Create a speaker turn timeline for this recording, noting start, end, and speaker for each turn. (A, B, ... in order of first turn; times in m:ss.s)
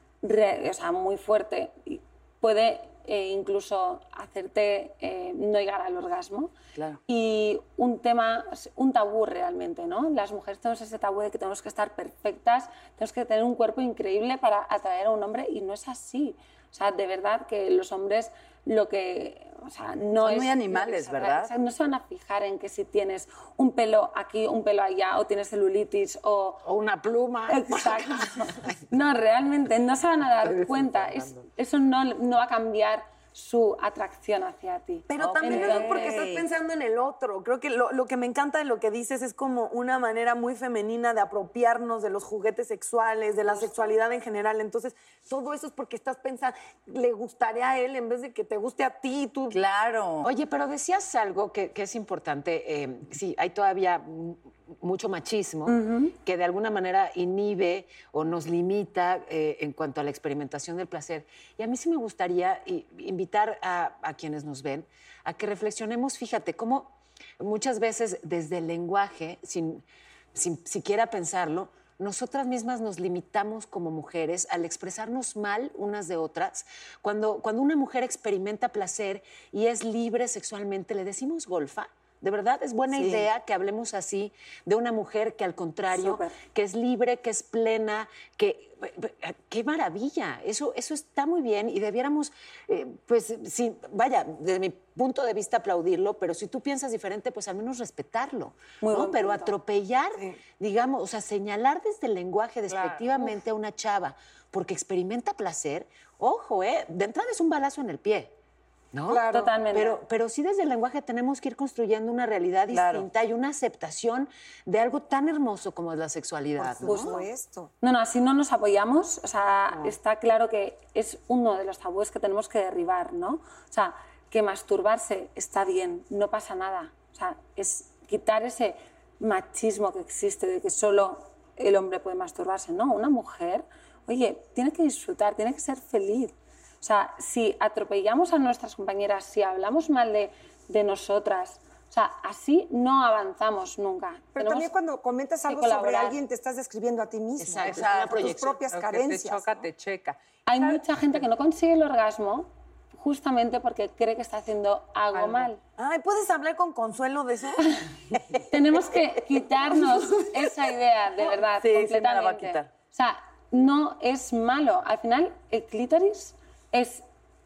0:00.2-0:06.5 A
0:06.7-0:07.0 B
0:07.1-0:26.6 A
0:20.2-0:21.5 B
0:26.6-0:28.7 C
0:27.5-0:36.1 A
0:30.4-0:31.4 C
0:35.1-0:49.6 D
0:35.2-0:36.5 B
0:43.4-0:44.0 A
0:49.5-0:50.3 B
0:50.2-1:48.3 C
0:55.6-0:56.1 A
1:22.9-1:23.3 B
1:25.9-1:26.4 A
1:38.8-1:39.6 A
1:42.7-1:43.0 E
1:48.9-1:57.2 C
1:49.1-1:49.3 F
1:49.3-1:50.0 A
1:52.7-1:53.1 B
1:56.6-1:57.7 F
1:56.9-1:57.2 A
1:57.8-2:24.7 A
2:24.3-2:29.7 F
2:25.5-2:26.2 A
2:27.4-2:28.6 C
2:27.7-2:28.2 B
2:28.7-2:30.8 E
2:30.5-2:35.6 A
2:35.1-2:35.5 E
2:35.8-2:37.7 D
2:38.5-2:47.0 A
2:41.3-2:42.7 B